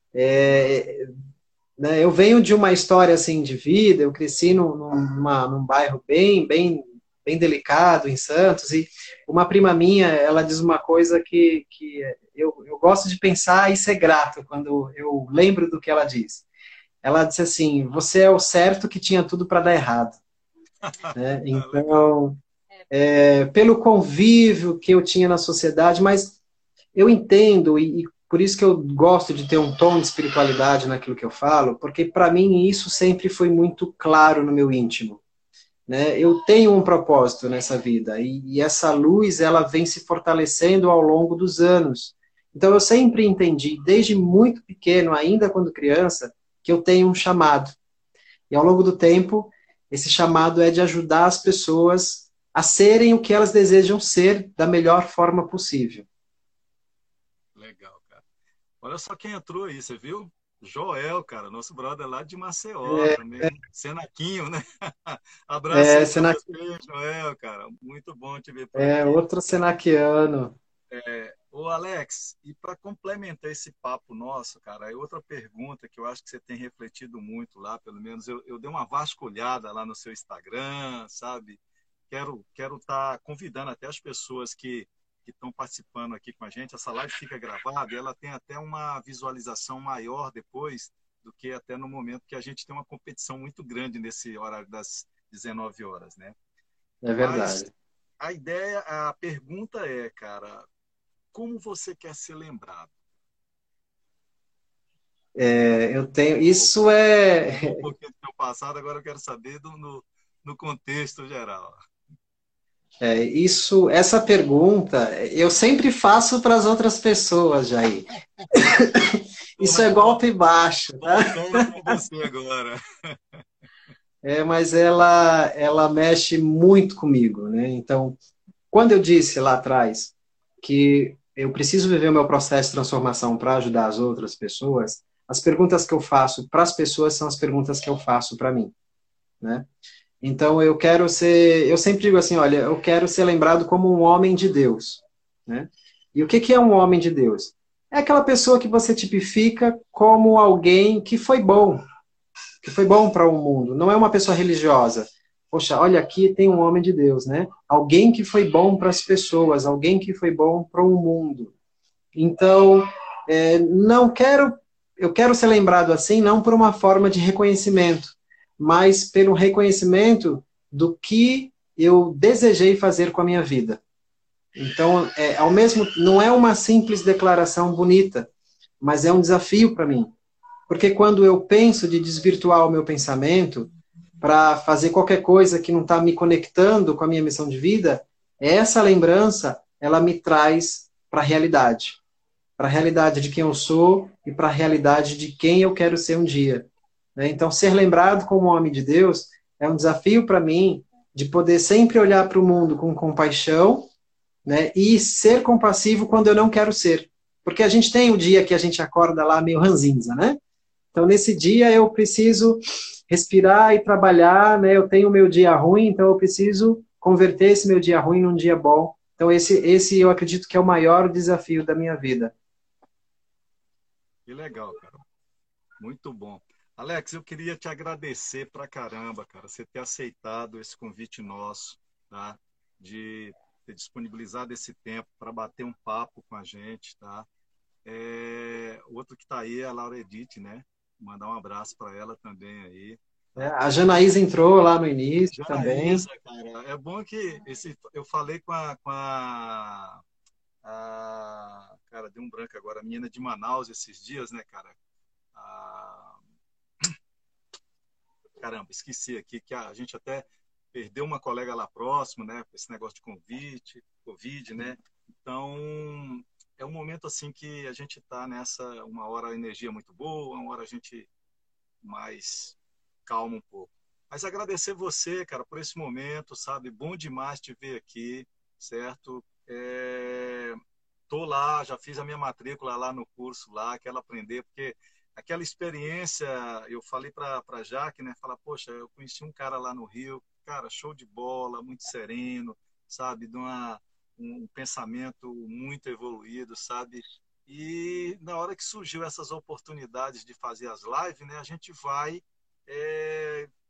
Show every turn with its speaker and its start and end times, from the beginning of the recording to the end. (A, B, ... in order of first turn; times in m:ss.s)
0:00.1-0:01.1 A
0:01.8-0:16.4 A
0:17.0-0:20.2 A
0:20.8-0:22.1 B
0:21.1-0:22.4 A
0:22.9-0:26.4 A
0:26.9-0:35.2 A
0:35.9-0:47.8 A
0:48.5-0:56.1 A
0:57.6-0:58.2 B
0:58.8-1:09.3 B
1:02.8-1:03.5 A
1:05.7-1:06.4 A
1:08.7-1:10.5 A
1:10.9-1:36.4 B
1:37.0-1:37.7 A
1:37.2-1:37.7 B
1:38.2-1:40.6 B
1:41.3-1:43.0 B
1:45.3-1:47.8 A
1:46.5-1:46.8 B
1:47.5-1:51.8 B
1:53.0-2:01.9 A
1:59.6-2:00.2 B
2:01.0-2:03.4 B
2:04.2-2:08.2 A
2:08.7-2:18.7 A
2:19.4-2:19.7 A
2:20.2-2:31.8 A
2:32.6-2:41.5 A
2:42.1-2:53.8 A
2:54.6-2:58.3 A
2:58.8-3:00.1 A
3:00.7-3:12.0 A
3:12.6-3:23.9 A
3:24.4-3:30.4 A
3:30.9-3:42.3 A
3:44.3-3:45.0 B
3:45.8-3:57.3 B
3:57.8-4:03.6 B
4:03.4-4:06.0 A
4:05.3-4:10.0 B
4:10.6-4:14.8 B
4:15.3-4:16.2 B
4:18.4-4:31.1 B
4:31.8-5:03.5 B